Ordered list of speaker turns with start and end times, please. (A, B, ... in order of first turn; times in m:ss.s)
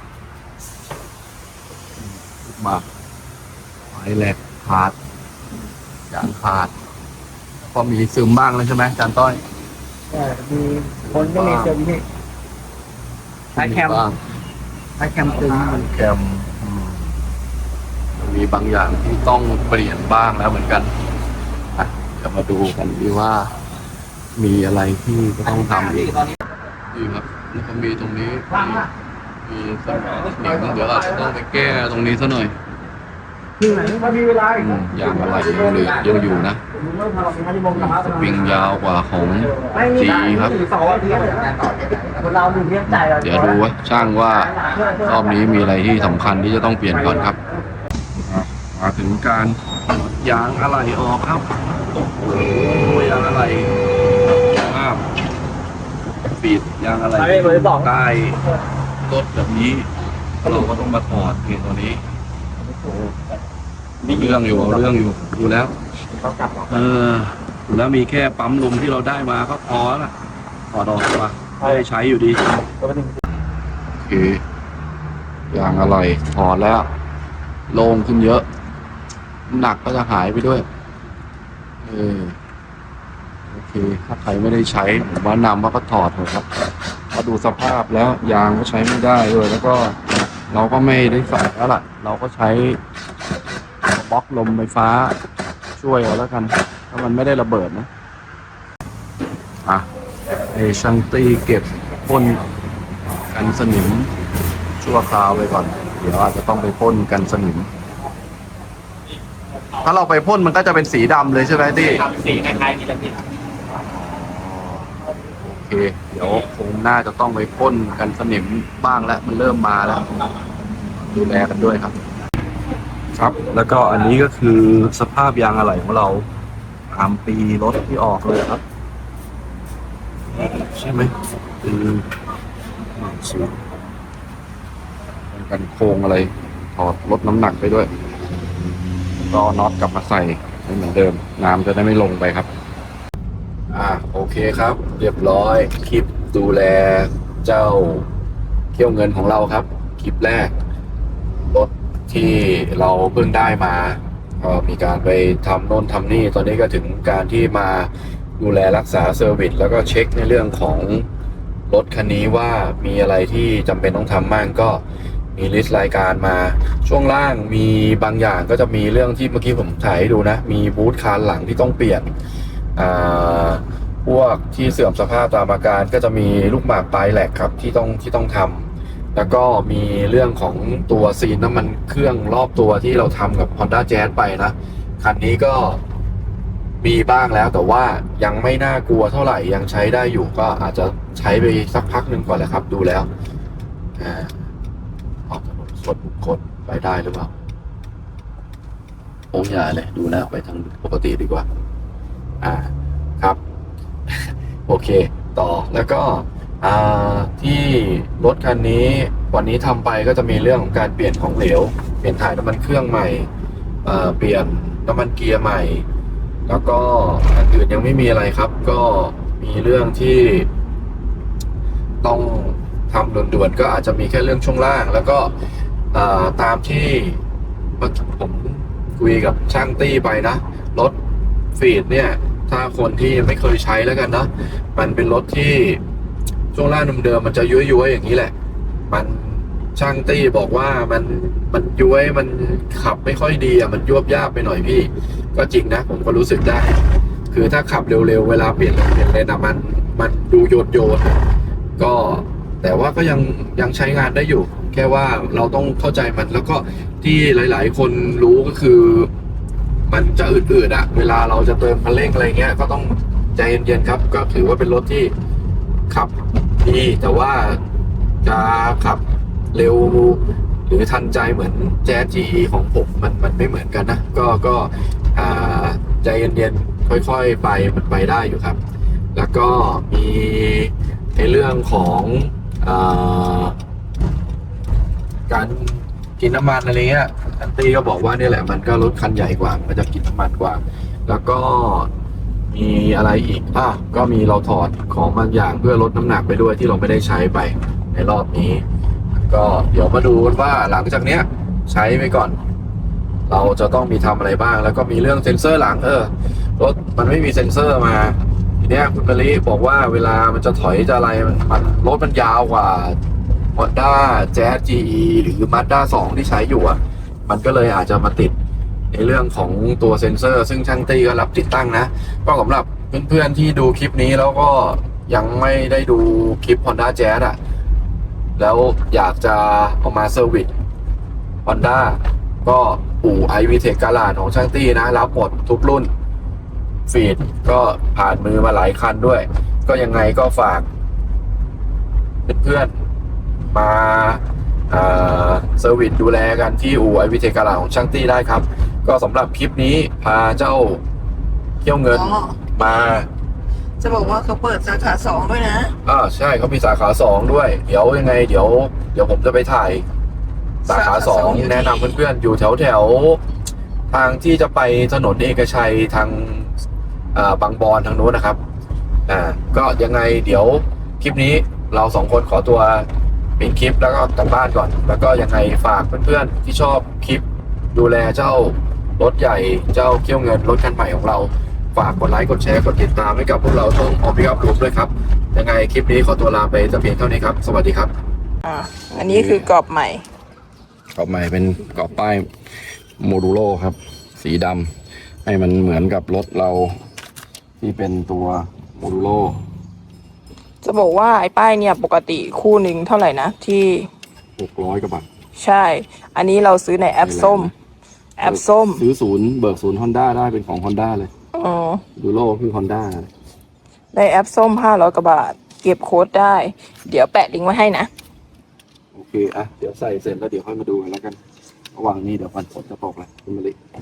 0:02.0-0:02.9 A
0:03.9-0:05.0 A
0:06.1-0:06.7 A
0:07.7-0:09.4 A
0:10.1-0:12.0 B
0:11.0-0:11.9 A
0:13.5-0:14.2 A
0:15.0-0:17.1 A
0:18.2-0:20.9 A
0:21.8-0:23.6 A
0:24.4-0:26.2 A
0:26.9-0:28.9 A
0:29.4-0:32.6 A
0:33.6-0:34.4 B
0:34.3-0:36.6 A
0:37.1-0:37.6 B
0:37.5-0:40.7 A
0:40.6-0:42.8 B
0:42.8-0:47.4 A
0:48.2-0:51.5 A
0:52.0-0:53.7 A
0:54.3-0:55.1 A
0:56.3-0:58.4 A
0:59.0-1:02.0 A
1:02.8-1:03.1 A
1:04.0-1:05.8 A
1:06.4-1:10.1 A
1:10.7-1:12.6 A
1:14.0-1:14.4 A
1:15.5-1:16.9 A
1:17.7-1:18.4 A
1:19.5-1:20.7 A
1:21.8-1:22.4 A
1:23.5-1:26.5 A
1:27.1-1:32.8 A
1:33.9-1:35.2 A
1:35.8-1:37.9 A
1:39.6-1:42.4 A
1:43.3-1:44.1 A
1:44.8-1:47.7 A
1:49.8-1:53.0 A
1:53.9-1:54.9 A
1:55.4-2:00.3 A
2:01.0-2:02.0 A
2:03.2-2:06.3 A
2:06.9-2:08.6 A
2:10.3-2:12.1 A
2:13.0-2:13.6 A
2:15.3-2:17.9 A
2:19.2-2:22.5 A
2:23.7-2:28.1 A
2:28.7-2:30.5 A
2:31.5-2:41.1 A
2:41.7-2:44.8 A
2:45.3-2:52.1 A
2:52.8-3:05.8 A
3:06.8-3:13.1 A
3:14.0-3:14.5 A
3:15.3-3:17.3 A
3:19.3-3:21.5 A
3:22.4-3:23.4 A
3:24.1-3:33.3 A
3:33.8-3:35.9 A
3:36.5-3:40.5 A
3:42.0-3:45.3 A
3:45.9-3:47.2 A
3:47.8-3:51.0 A
3:51.6-3:55.8 A
3:56.5-3:58.3 A
3:58.9-4:06.8 A
4:07.3-4:11.2 A
4:11.8-4:19.1 A
4:19.9-4:25.1 A
4:25.9-4:27.6 A
4:28.2-4:29.0 A
4:29.5-4:38.6 A
4:39.2-4:43.6 A
4:45.3-4:51.9 A
4:52.5-5:02.4 A
5:03.3-5:13.0 A
5:13.6-5:18.4 A
5:18.9-5:27.4 A
5:28.4-5:30.5 A
5:31.4-5:35.9 A
5:36.9-5:40.7 A
5:42.3-5:42.8 A
5:43.5-5:50.8 A
5:51.6-5:53.1 A
5:53.8-5:55.7 C
5:55.8-5:59.8 A
6:00.6-6:03.2 A
6:00.7-6:02.0 B
6:03.9-6:06.5 A
6:07.1-6:08.4 A
6:09.1-6:27.9 A
6:28.4-6:30.0 C
6:28.9-6:29.5 A
6:31.0-6:32.3 A
6:33.0-6:34.7 A
6:35.2-6:36.8 A
6:37.6-6:39.4 A
6:40.6-6:43.9 C
6:44.4-6:45.1 A
6:45.4-6:47.5 C
6:47.0-6:47.5 A
6:48.2-6:48.8 C
6:48.2-6:51.1 A
6:51.3-6:51.8 C
6:52.0-6:53.1 A
6:53.9-6:57.9 C
6:58.9-7:01.2 A
7:01.7-7:03.6 A